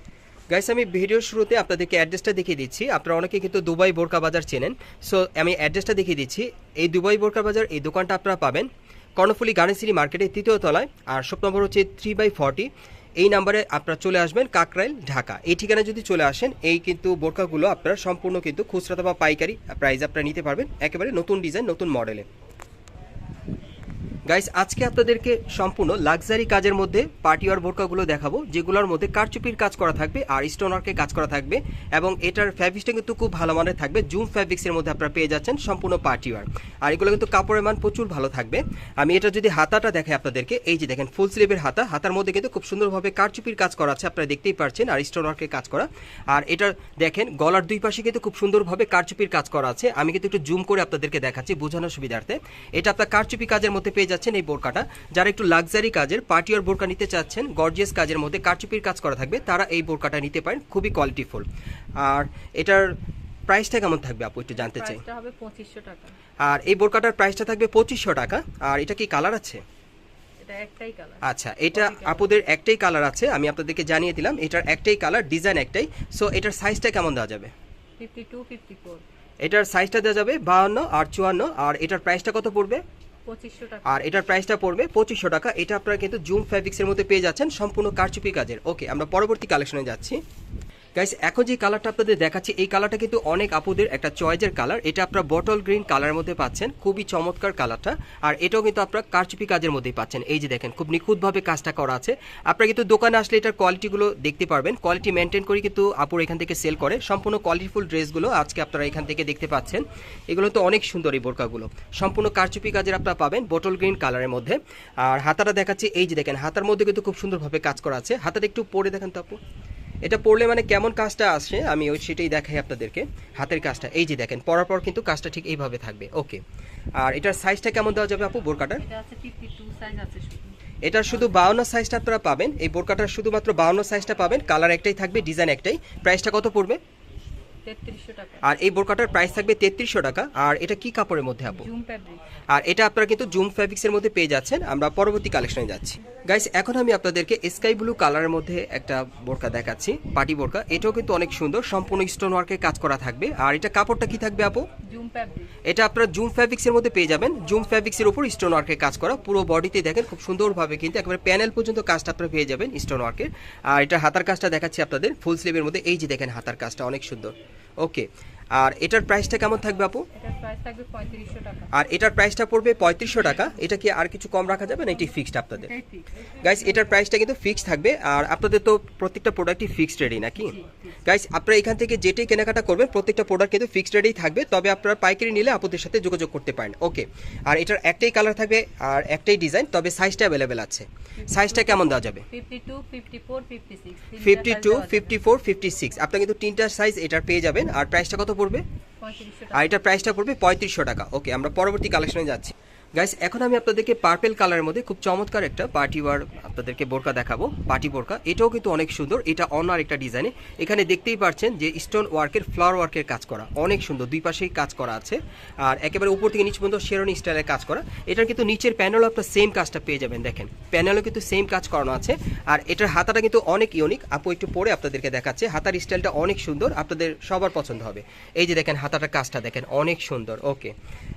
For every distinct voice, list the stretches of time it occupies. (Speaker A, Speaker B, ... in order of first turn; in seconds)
Speaker A: 0.5-22.3, 24.3-61.5, 62.0-62.9, 63.5-65.0, 66.4-69.6, 71.2-77.5, 79.4-82.8, 83.8-90.2, 91.0-119.4, 120.0-126.4, 127.0-128.8, 130.8-136.8, 138.4-141.7, 142.5-154.7, 155.7-170.1, 171.7-175.7, 176.4-192.2, 194.2-198.6, 199.5-230.7
Speaker B: 64.6-66.1, 70.4-72.4, 78.0-79.0, 83.2-84.5, 128.8-130.6, 137.6-138.5, 141.5-142.2, 154.8-155.5, 170.1-171.7, 175.5-176.8, 180.4-180.9, 191.2-195.2, 199.0-200.0